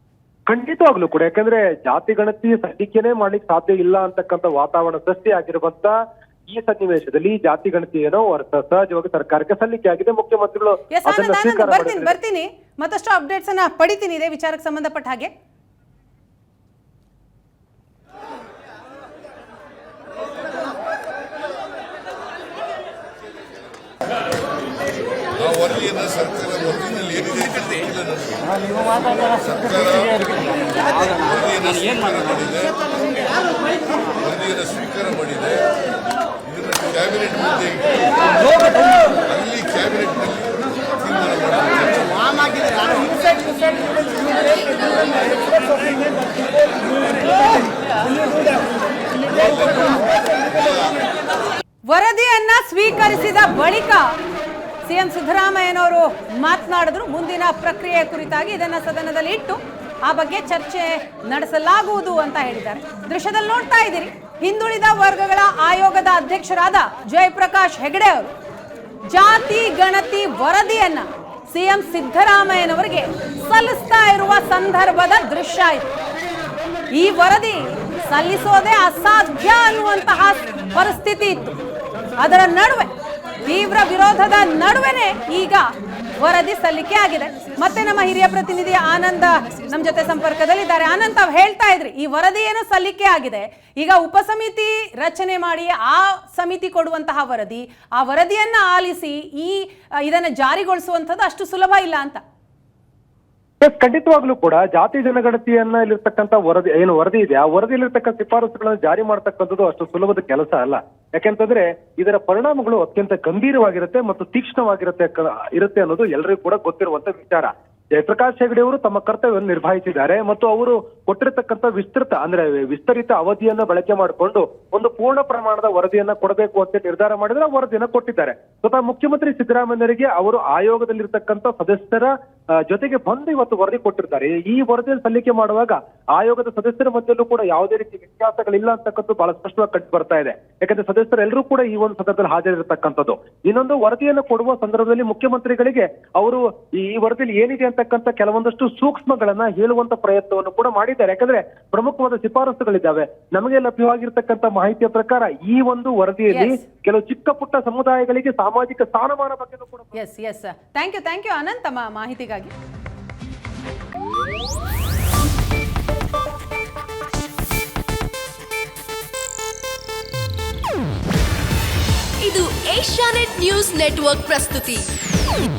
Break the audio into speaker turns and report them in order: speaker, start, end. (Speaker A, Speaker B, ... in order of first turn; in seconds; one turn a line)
Speaker A: 0.5-5.9
Speaker A: 6.5-12.1
Speaker B: 10.9-15.3
Speaker C: 25.8-27.9
Speaker C: 29.4-30.3
Speaker C: 31.2-32.7
Speaker C: 34.4-35.4
Speaker C: 37.1-37.5
Speaker C: 39.4-40.3
Speaker C: 41.1-42.0
Speaker C: 49.4-50.0
Speaker C: 50.6-50.9
Speaker B: 51.9-54.1
Speaker B: 54.8-68.3
Speaker B: 69.1-75.9
Speaker B: 76.9-81.5
Speaker B: 82.2-82.9
Speaker B: 83.4-85.7
Speaker B: 86.2-102.2
Speaker A: 103.6-132.1
Speaker A: 132.7-159.9
Speaker B: 156.3-156.6
Speaker B: 159.9-162.5
Speaker D: 172.2-174.9